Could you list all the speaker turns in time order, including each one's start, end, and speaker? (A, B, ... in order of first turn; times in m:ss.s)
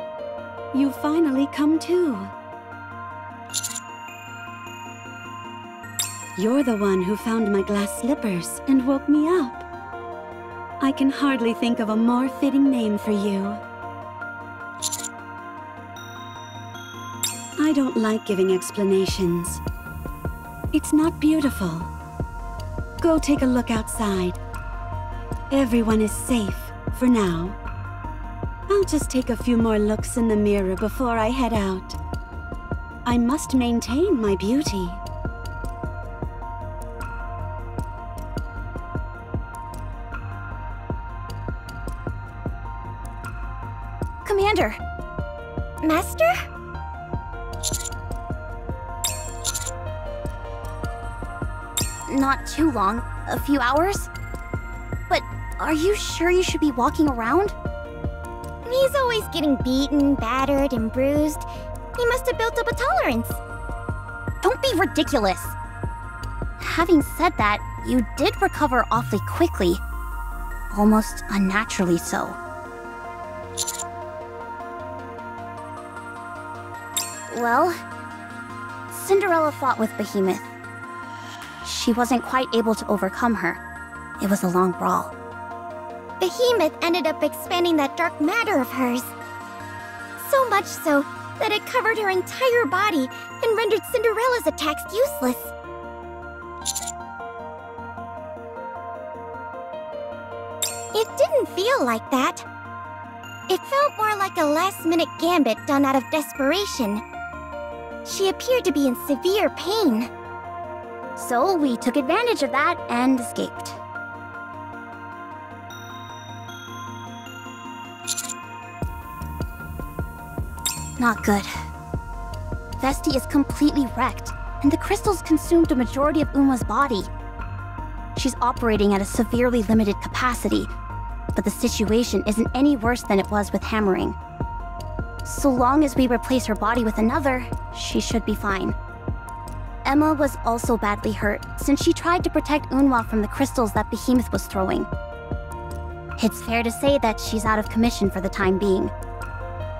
0:00.7-0:02.3 A
0:06.4-0:09.6 A
0:10.8-0:13.6 A
0:17.6-0:19.6 A
0:20.7-0:21.9 A
0:23.0-0:24.4 A
0:25.5-0:27.6 A
0:28.7-0:32.0 A
0:33.0-0:35.0 A
0:44.2-0:44.8 B
0:45.8-0:46.4 C
0:52.1-0:54.1 B
0:55.1-0:57.5 B
0:58.6-1:01.4 C
1:02.0-1:03.4 C
1:04.4-1:05.6 B
1:06.6-1:09.8 B
1:10.7-1:12.4 B
1:17.3-1:17.8 B
1:18.9-1:20.5 B
1:21.6-1:23.6 B
1:24.2-1:25.1 B
1:26.2-1:29.1 C
1:30.2-1:35.5 C
1:40.9-1:42.4 C
1:43.5-1:47.0 C
1:48.0-1:50.1 C
1:51.2-1:53.8 B
2:01.0-2:01.5 B
2:02.8-2:07.1 B
2:08.1-2:10.7 B
2:11.3-2:14.2 B
2:15.2-2:18.7 B
2:19.8-2:24.9 B
2:26.2-2:28.9 B